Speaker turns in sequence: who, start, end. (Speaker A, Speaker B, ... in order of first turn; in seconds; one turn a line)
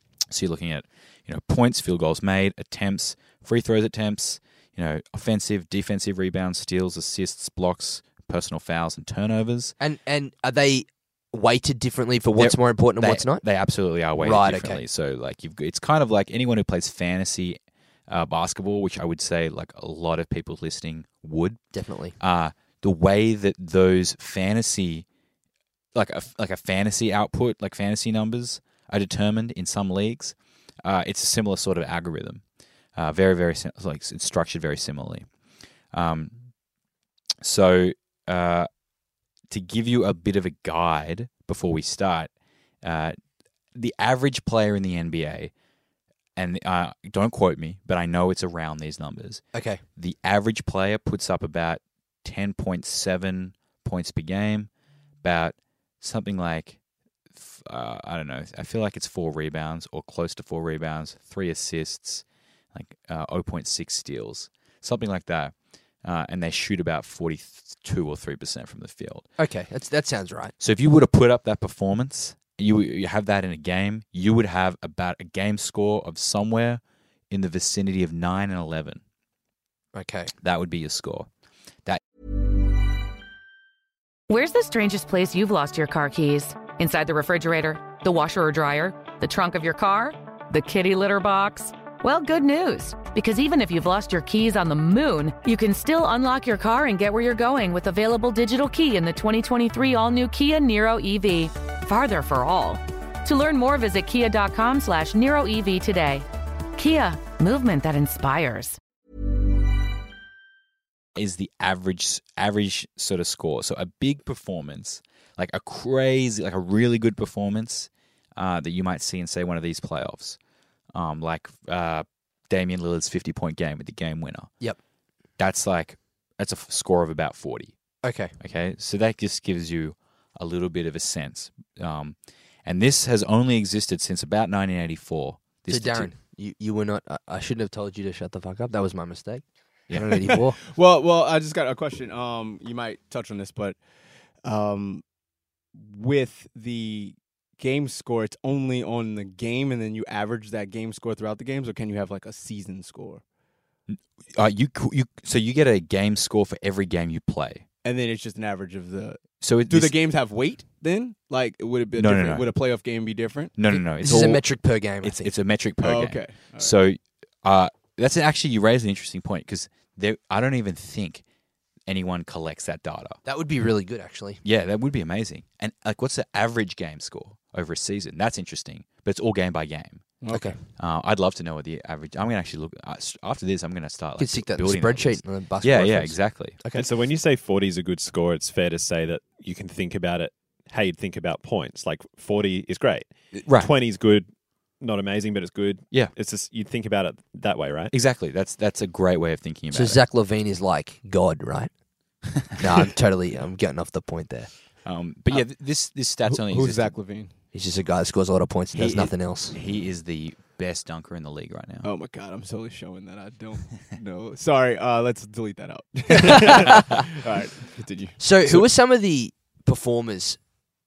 Speaker A: 0.3-9.7
Speaker B: 9.8-13.4
Speaker A: 12.4-21.6
Speaker B: 14.2-14.8
Speaker B: 21.7-22.1
Speaker A: 22.2-25.1
Speaker A: 25.9-32.4
Speaker A: 33.0-35.3
Speaker A: 35.9-36.4
Speaker A: 37.4-38.7
Speaker A: 39.5-42.3
Speaker A: 42.8-43.2
Speaker A: 43.8-45.5
Speaker A: 46.4-49.4
Speaker B: 49.5-49.8
Speaker A: 50.0-54.7
Speaker A: 55.2-56.8
Speaker A: 57.4-69.3
Speaker B: 69.4-70.5
Speaker A: 70.6-79.0
Speaker B: 79.9-80.3
Speaker A: 80.4-81.3
Speaker C: 84.3-108.8
Speaker A: 111.2-120.4
Speaker A: 120.9-124.5
Speaker A: 125.4-127.8
Speaker B: 128.0-128.3
Speaker A: 128.4-136.1
Speaker B: 135.7-140.6
Speaker A: 139.9-140.2
Speaker D: 140.6-143.8
Speaker D: 144.4-145.0
Speaker D: 145.7-153.2
Speaker A: 153.9-157.6
Speaker D: 157.8-163.6
Speaker A: 159.4-159.9
Speaker A: 162.0-162.5
Speaker A: 163.6-164.4
Speaker B: 163.7-165.3
Speaker A: 165.0-171.2
Speaker D: 165.8-166.8
Speaker A: 171.9-173.2
Speaker B: 173.2-174.4
Speaker A: 174.4-180.1
Speaker D: 180.2-180.6
Speaker B: 180.3-180.6
Speaker A: 180.8-186.6
Speaker B: 184.2-186.9
Speaker E: 186.7-194.3
Speaker A: 193.3-193.7
Speaker E: 194.8-197.9
Speaker A: 197.9-200.0
Speaker B: 199.7-201.7
Speaker B: 202.6-204.5
Speaker A: 204.8-206.9
Speaker D: 206.3-207.3
Speaker B: 207.5-209.6
Speaker A: 208.7-211.9
Speaker D: 211.8-218.6
Speaker B: 216.2-217.0
Speaker B: 218.2-220.4